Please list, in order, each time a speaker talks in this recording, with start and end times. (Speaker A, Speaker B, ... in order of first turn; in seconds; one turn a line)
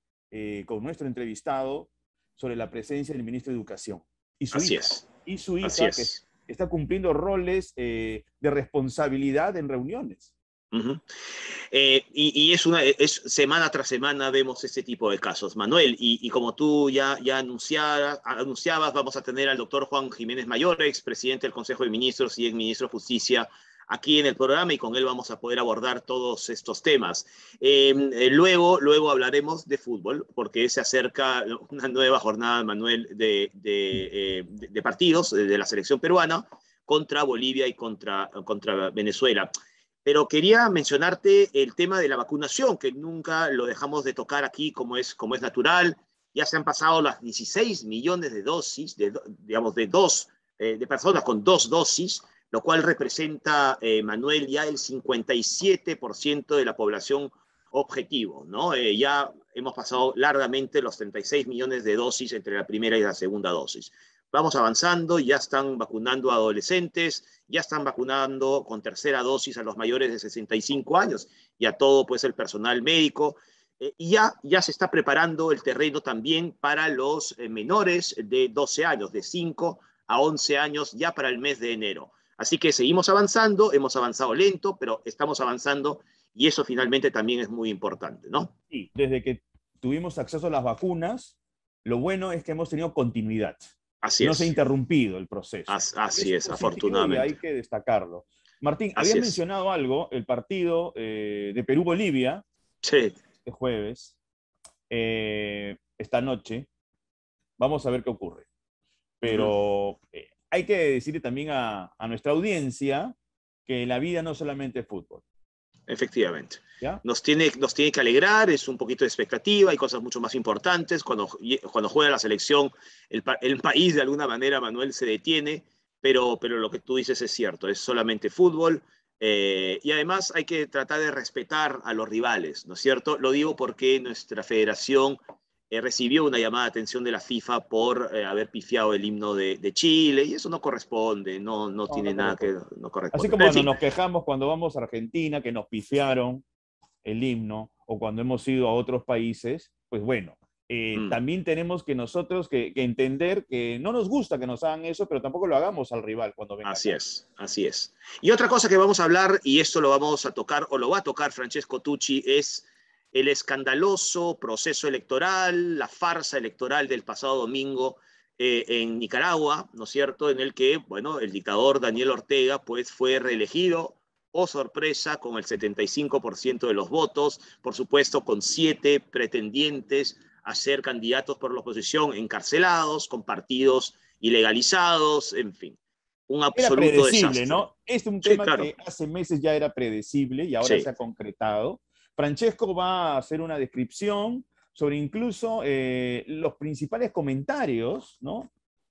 Speaker A: 0.3-10.3
Speaker B: 4.5-5.0
Speaker B: 5.6-6.2
Speaker B: 10.7-11.0
Speaker B: 11.7-39.5
Speaker B: 40.0-88.5
Speaker A: 88.7-102.4
Speaker B: 94.0-94.5
Speaker B: 95.7-97.3
Speaker B: 99.0-99.3
Speaker B: 102.8-103.1
Speaker A: 103.4-104.1
Speaker A: 104.9-106.7
Speaker A: 107.6-108.5
Speaker A: 109.2-113.1
Speaker A: 113.7-115.2
Speaker B: 115.9-135.2
Speaker B: 135.7-143.7
Speaker A: 141.9-142.5
Speaker A: 143.1-146.4
Speaker A: 147.0-157.0
Speaker B: 156.6-185.8
Speaker B: 186.3-187.6
Speaker A: 186.6-198.5
Speaker B: 188.2-188.7